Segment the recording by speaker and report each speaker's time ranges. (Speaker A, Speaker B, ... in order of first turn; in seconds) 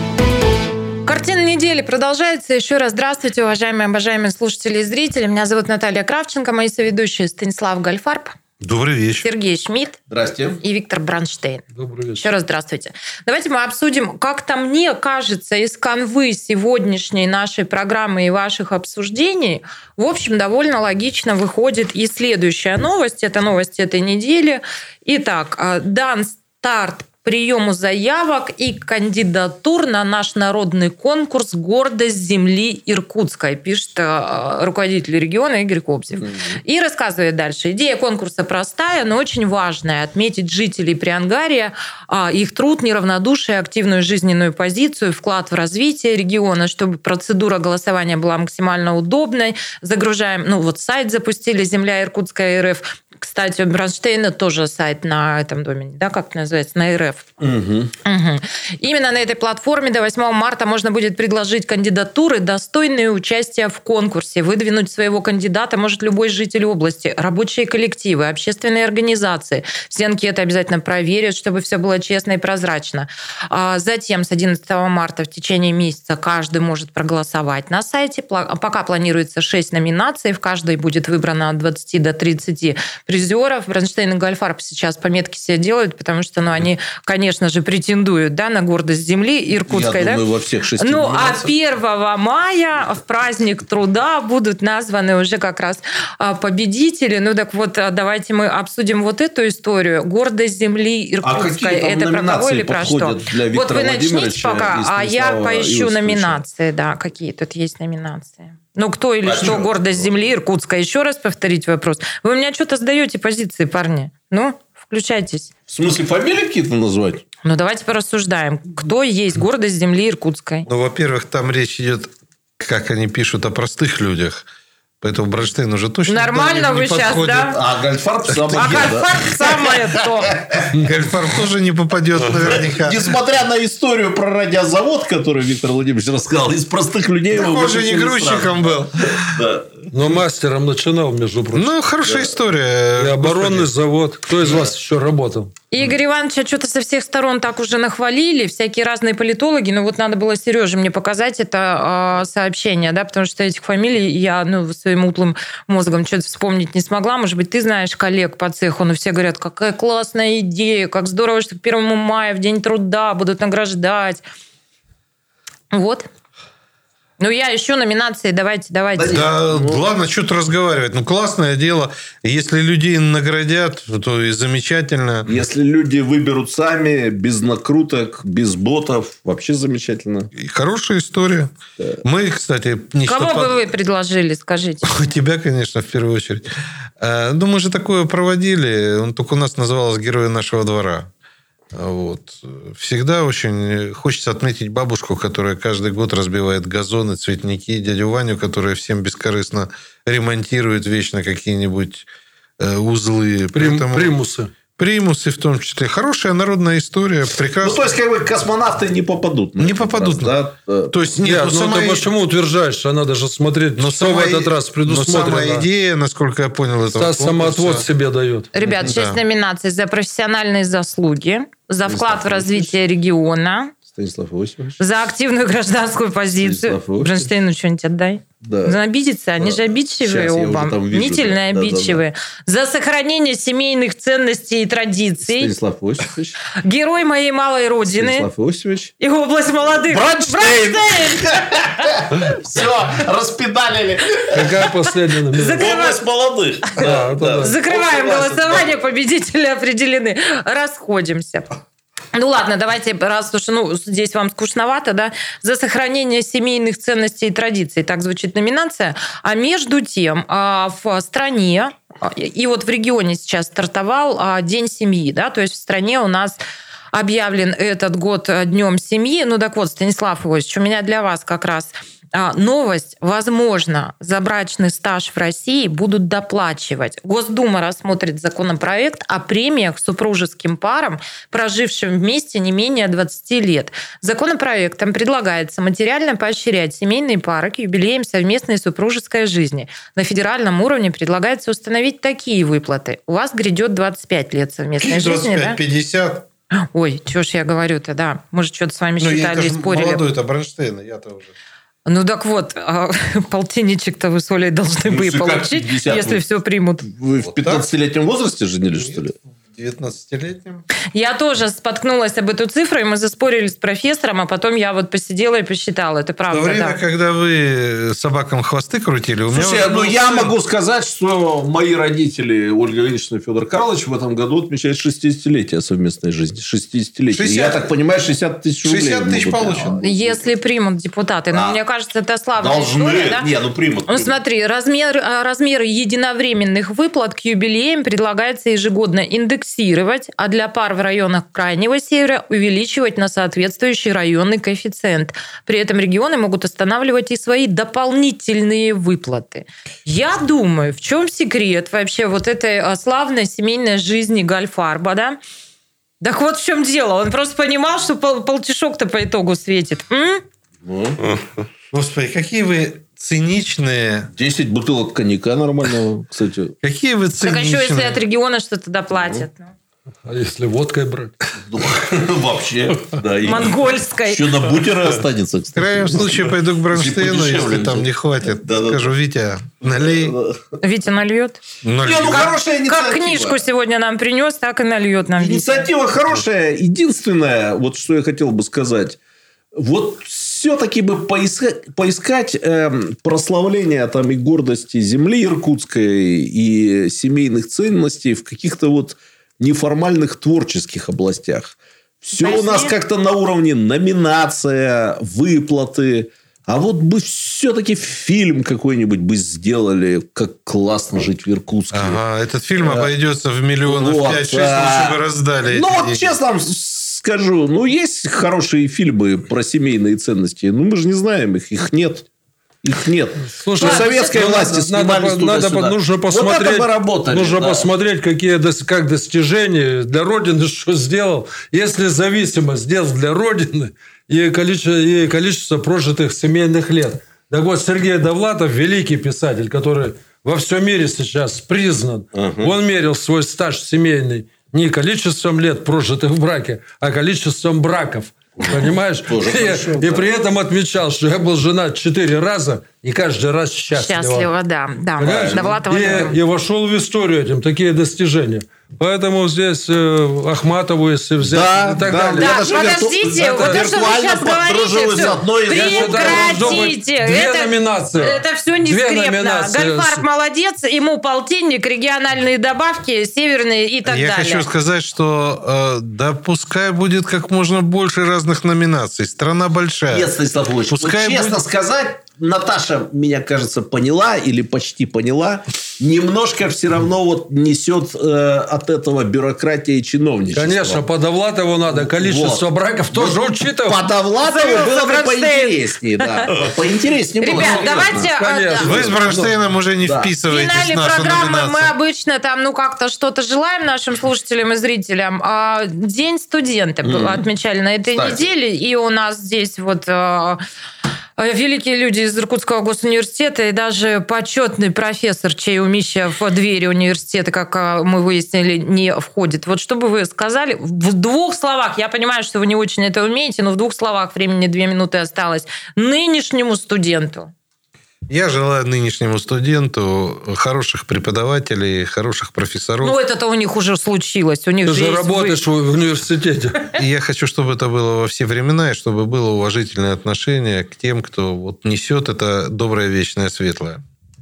Speaker A: 1.1-8.3, 9.2-10.0, 10.6-11.6, 12.2-57.2, 58.0-90.2, 90.8-115.5, 117.4-120.7, 126.1-127.6, 128.5-130.3, 145.7-164.2, 165.7-166.1, 167.2-169.2, 183.0-185.1, 218.5-223.7, 224.8-235.5, 236.6-238.3, 239.0-241.9, 245.3-246.0, 247.4-251.4, 252.1-266.4, 266.9-295.6, 296.7-300.0, 301.9-306.9, 310.9-316.8, 329.8-333.2, 333.9-355.2, 356.0-360.2, 367.2-369.5, 373.2-374.6, 380.6-381.4, 382.6-385.7, 402.1-402.7, 423.6-424.3, 453.7-456.2, 462.2-474.4, 494.2-496.2, 497.2-498.8, 500.3-510.4, 511.2-527.3, 532.8-535.4
Speaker B: 8.6-9.3, 120.7-124.4, 125.0-127.6, 128.4-128.8, 130.7-133.1, 137.3-139.4, 141.5-143.7, 169.1-175.3, 180.3-183.7, 184.8-186.5, 187.0-191.1, 191.7-202.1, 202.6-204.1, 204.8-207.8, 209.6-210.3, 210.9-212.1, 213.8-217.8, 218.8-219.2, 294.8-296.2, 299.0-301.3, 307.2-307.7, 308.7-310.6, 316.3-320.3, 327.1-327.6, 328.6-329.8, 361.7-364.1, 366.6-368.0, 375.5-380.2, 381.6-382.4, 411.7-416.1, 473.8-480.1, 480.7-481.4, 498.6-501.7, 528.1-533.0, 536.8-543.8
Speaker C: 10.1-10.6, 36.2-36.5, 57.4-57.9, 89.7-91.5, 101.2-106.4, 109.2-110.2, 115.7-117.2, 127.5-129.8, 130.4-130.7, 132.2-139.8, 142.0-142.3, 168.9-169.8, 175.2-180.3, 207.6-210.9, 218.6-218.9, 221.8-222.7, 223.9-224.8, 226.4-227.3, 228.4-228.8, 229.4-232.0, 235.2-236.4, 237.9-238.9, 239.9-244.7, 245.5-248.7, 304.9-306.2, 306.8-309.1, 319.3-330.2, 331.3-331.6, 332.4-334.1, 360.6-361.0, 364.1-366.5, 368.9-369.2, 371.4-378.9, 379.7-380.5, 381.8-383.4, 385.2-389.0, 389.6-412.0, 412.6-412.9, 413.6-422.1, 422.6-427.7, 442.1-442.5, 448.4-450.0, 455.0-455.5, 461.2-466.7, 479.9-490.8, 491.7-498.1, 498.6-499.0, 499.8-500.1, 506.8-507.2, 507.9-508.2
Speaker D: 11.7-12.3, 139.9-141.7, 143.0-145.5, 203.5-204.5, 211.2-215.7, 217.0-218.5, 244.3-245.7, 246.8-247.5, 370.0-371.1, 423.3-454.3, 455.0-462.7, 463.3-463.7, 465.5-470.0, 490.3-493.8, 497.3-499.4, 534.6-536.7